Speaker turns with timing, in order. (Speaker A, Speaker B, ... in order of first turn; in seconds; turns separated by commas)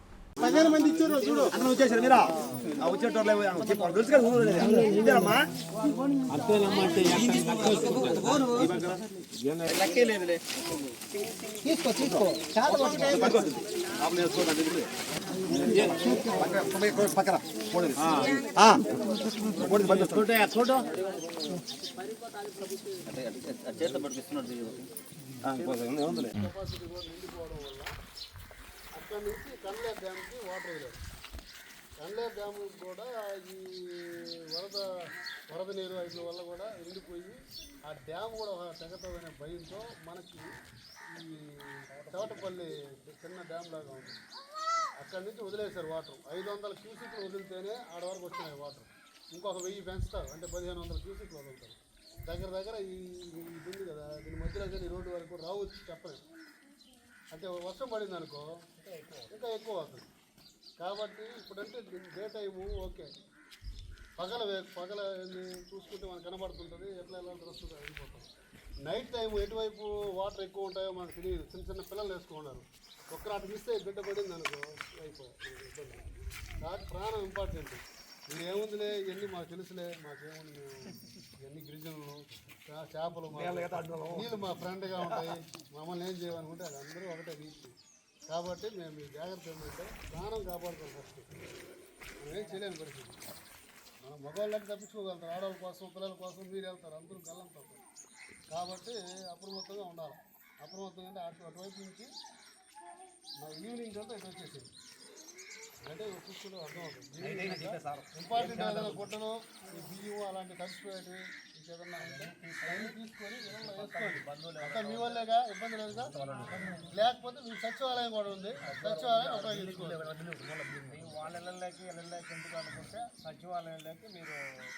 Speaker A: 0.4-2.3, Speaker B: 0.8-1.4, Speaker A: 2.8-5.5, Speaker B: 6.3-8.5, Speaker A: 8.3-9.0, Speaker A: 9.7-10.4, Speaker A: 12.0-12.2, Speaker B: 12.6-13.1, Speaker A: 12.8-14.9, Speaker A: 15.5-18.9, Speaker B: 15.8-16.1, Speaker A: 19.5-20.3, Speaker B: 19.8-21.0, Speaker A: 23.1-24.9, Speaker A: 25.4-26.3, Speaker C: 26.3-27.9, Speaker C: 28.9-31.0, Speaker C: 32.0-34.9, Speaker C: 35.5-40.5, Speaker C: 41.1-44.2, Speaker B: 41.9-42.5, Speaker C: 45.0-56.2, Speaker C: 57.3-58.5, Speaker B: 58.8-59.3, Speaker C: 59.3-60.1, Speaker C: 60.8-63.1, Speaker C: 64.2-68.3, Speaker C: 68.8-87.7, Speaker B: 83.3-84.2, Speaker C: 88.3-91.3, Speaker C: 92.2-93.2, Speaker C: 94.0-97.8, Speaker C: 98.5-102.1, Speaker C: 103.4-104.7, Speaker C: 105.8-116.1, Speaker B: 107.2-109.1, Speaker B: 112.0-115.2, Speaker B: 116.1-116.9, Speaker C: 116.9-120.1, Speaker B: 118.6-124.4